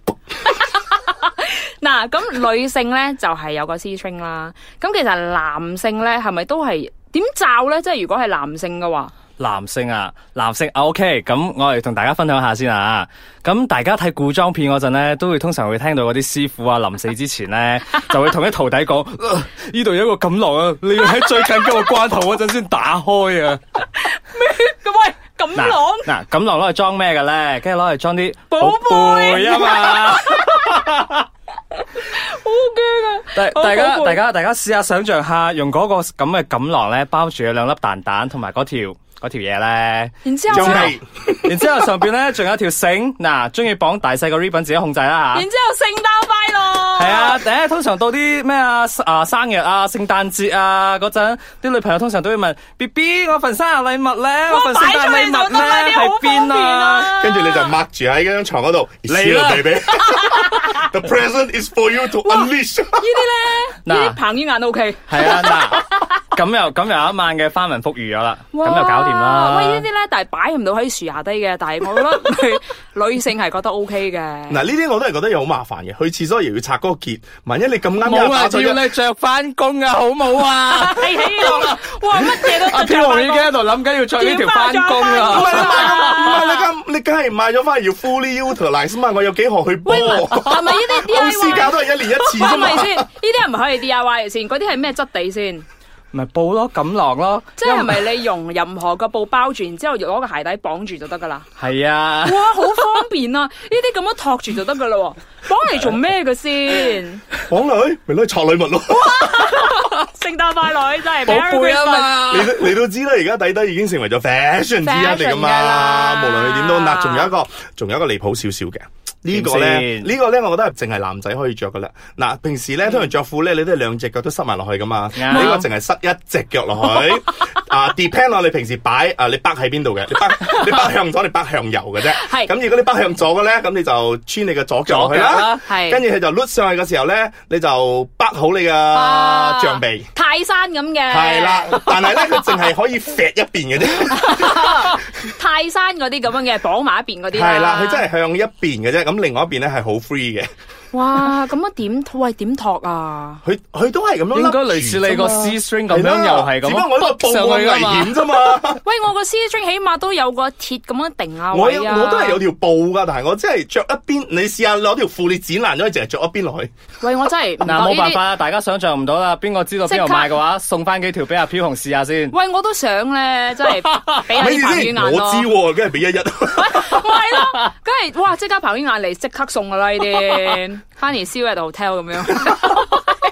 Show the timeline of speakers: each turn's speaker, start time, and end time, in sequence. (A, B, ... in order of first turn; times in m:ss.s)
0:00.5-0:09.1 A
0:09.4-0:23.6 B
0:23.9-0:26.1 A
0:25.5-0:31.2 B
0:28.5-0:30.8 A
0:32.0-0:34.2 A
0:33.3-0:45.4 B
0:40.2-0:40.9 A
0:40.5-0:41.6 C
0:45.3-0:47.4 A
0:47.0-0:57.2 B
0:54.5-0:57.7 A
0:57.2-1:03.0 C
0:59.1-1:00.6 B
1:03.0-1:05.8 A
1:03.8-1:04.2 B
1:05.1-1:09.8 B
1:08.5-1:14.6 A
1:14.5-1:18.8 C
1:18.0-1:26.5 B
1:20.7-1:23.5 A
1:24.1-1:26.7 A
1:25.2-1:33.0 C
1:29.8-1:35.6 A
1:36.1-1:38.1 B
1:37.6-1:41.5 A
1:41.6-1:42.8 B
1:42.2-1:47.2 A
1:47.5-1:49.5 C
1:49.0-1:52.2 A
1:51.2-1:52.8 B
1:52.3-2:20.1 C
1:54.8-1:57.3 A
1:59.3-2:00.1 B
2:05.2-2:05.6 B
2:05.2-2:05.6 A
2:12.1-2:12.5 A
2:14.9-2:15.6 B
2:15.7-2:16.0 A
2:18.9-2:22.5 A
2:21.1-2:24.9 C
2:24.1-2:28.0 A
2:27.3-2:30.5 C
2:30.9-2:33.4 A
2:33.4-2:38.8 C
2:34.3-2:38.3 B
2:38.8-2:42.4 A
2:41.5-2:46.7 C
2:47.0-2:48.2 A
2:47.6-2:52.3 B
2:49.9-2:50.3 A
2:52.3-2:55.5 A
2:53.7-2:54.2 B
2:54.3-2:57.0 C
2:56.5-3:03.1 A
3:02.4-3:02.8 C